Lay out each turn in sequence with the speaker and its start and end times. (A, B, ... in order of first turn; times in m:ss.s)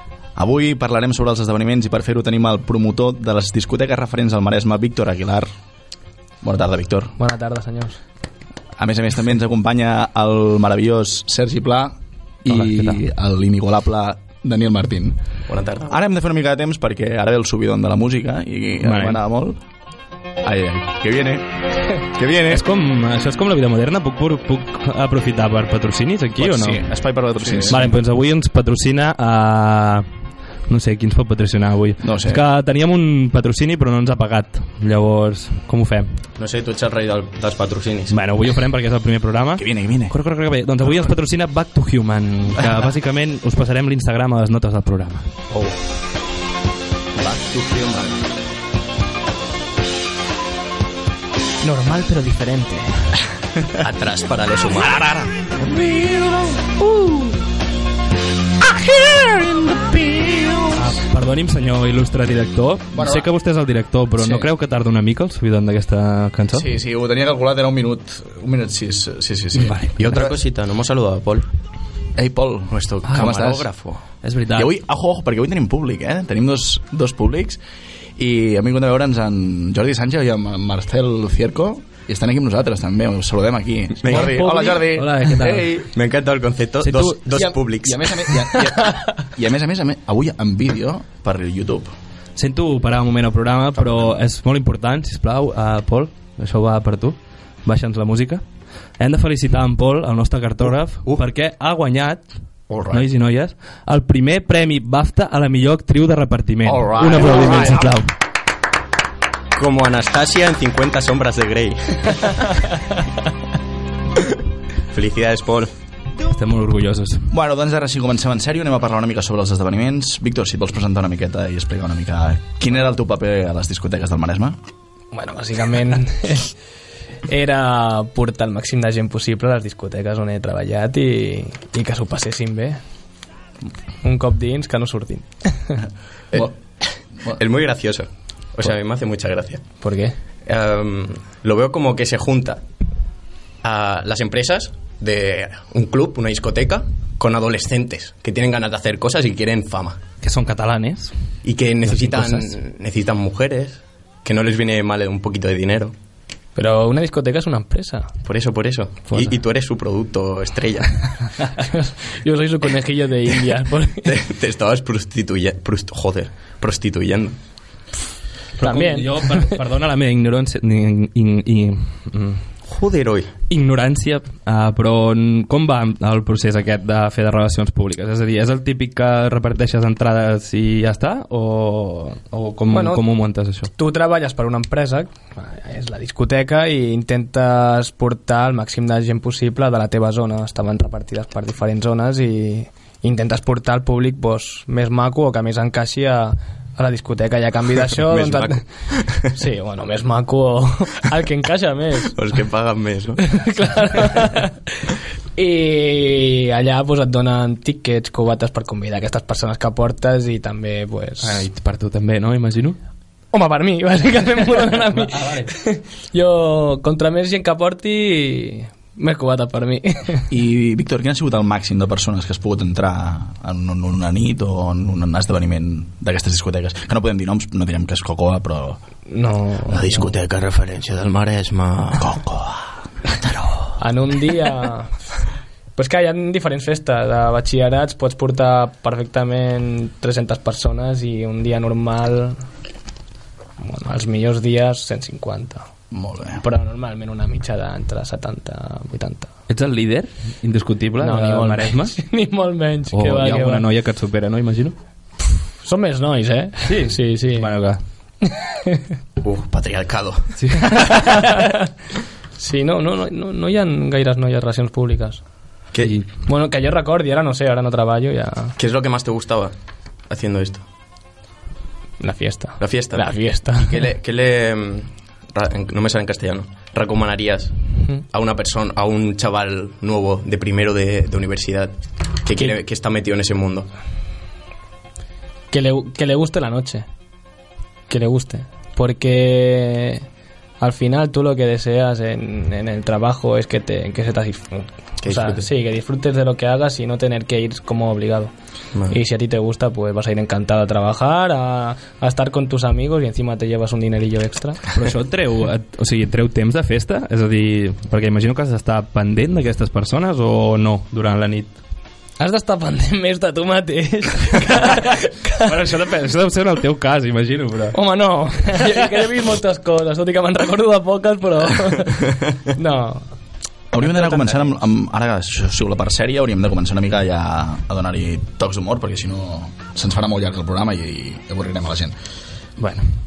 0:00.4-0:05.5 A
0:06.4-0:07.2 A
0:07.2-0:08.0 B
0:08.8-0:15.2 A
0:12.5-0:13.0 C
0:15.5-0:15.9 D
0:15.8-0:19.6 A
0:18.8-0:19.2 C
0:20.4-0:22.7 A
0:22.5-0:26.8 C
0:26.4-0:27.9 A
0:27.7-0:30.0 C
0:30.7-0:36.2 C
0:32.0-0:32.4 A
0:36.4-0:38.1 D
0:38.1-0:45.3 C
0:39.6-0:40.2 A
0:40.8-0:41.1 A
0:47.2-0:48.2 A
0:51.6-0:53.2 B
0:53.8-0:55.0 D
0:54.9-0:57.3 A
0:58.6-1:00.8 A
1:00.8-1:06.7 C
1:02.9-1:03.3 A
1:04.2-1:04.5 A
1:06.5-1:10.3 A
1:09.5-1:10.3 C
1:10.0-1:11.5 D
1:12.2-1:13.7 A
1:12.7-1:14.0 D
1:13.1-1:13.4 C
1:14.2-1:14.7 C
1:14.5-1:17.6 A
1:18.2-1:25.9 A
1:24.0-1:24.4 D
1:24.1-1:25.8 C
1:25.9-1:28.0 D
1:26.8-1:27.2 C
1:27.2-1:31.9 A
1:32.4-1:38.4 C
1:39.0-1:42.2 C
1:42.7-1:43.0 A
1:42.9-1:48.1 C
1:46.6-1:47.9 A
1:49.6-1:52.7 D
1:54.9-1:55.7 D
1:56.3-1:57.3 C
1:57.3-2:04.6 A
2:05.1-2:06.5 B
2:07.3-2:12.8 B
2:14.0-2:15.8 B
2:17.3-2:19.7 D
2:19.8-2:20.2 B
2:20.4-2:22.6 D
2:23.6-2:30.0 D
2:30.2-2:31.1 C
2:31.4-2:35.9 D
2:31.9-2:32.6 C
2:36.6-2:38.1 B
2:38.2-2:41.3 D
2:41.6-2:44.1 B
2:44.0-2:47.4 D
2:48.6-2:49.6 B
2:48.6-2:52.4 C
2:52.7-2:53.3 D
2:53.5-3:03.7 C
3:02.7-3:03.0 B
3:03.8-3:18.6 B
3:18.1-3:19.3 D
3:19.3-3:22.2 B
3:22.1-3:23.2 D
3:23.3-3:31.4 B
3:31.2-3:32.8 C
3:33.3-3:40.3 B
3:34.9-3:35.5 C
3:40.3-3:48.8 A
3:49.1-3:49.8 B
3:49.7-3:52.2 D
3:49.8-3:50.1 A
3:52.0-3:52.6 A
3:53.8-3:54.9 B
3:55.8-4:02.4 B
4:03.6-4:05.7 B
4:05.9-4:06.4 A
4:06.4-4:09.3 B
4:09.5-4:12.0 C
4:11.0-4:13.6 B
4:12.9-4:14.8 C
4:15.6-4:17.5 B
4:16.7-4:17.8 C
4:18.3-4:18.8 B
4:19.2-4:20.8 D
4:20.4-4:21.4 C
4:22.4-4:25.2 B
4:26.3-4:28.6 B
4:28.6-4:29.5 D
4:30.1-4:30.6 D
4:32.0-4:33.7 B
4:32.6-4:43.7 D
4:45.5-4:46.9 B
4:47.9-4:50.0 B
4:50.6-4:58.3 B
4:55.0-4:55.4 D
4:58.9-5:04.6 B
5:04.7-5:11.6 C
5:12.2-5:15.5 B
5:15.4-5:17.8 C
5:17.7-5:23.1 B
5:23.7-5:32.0 A
5:23.8-5:24.5 B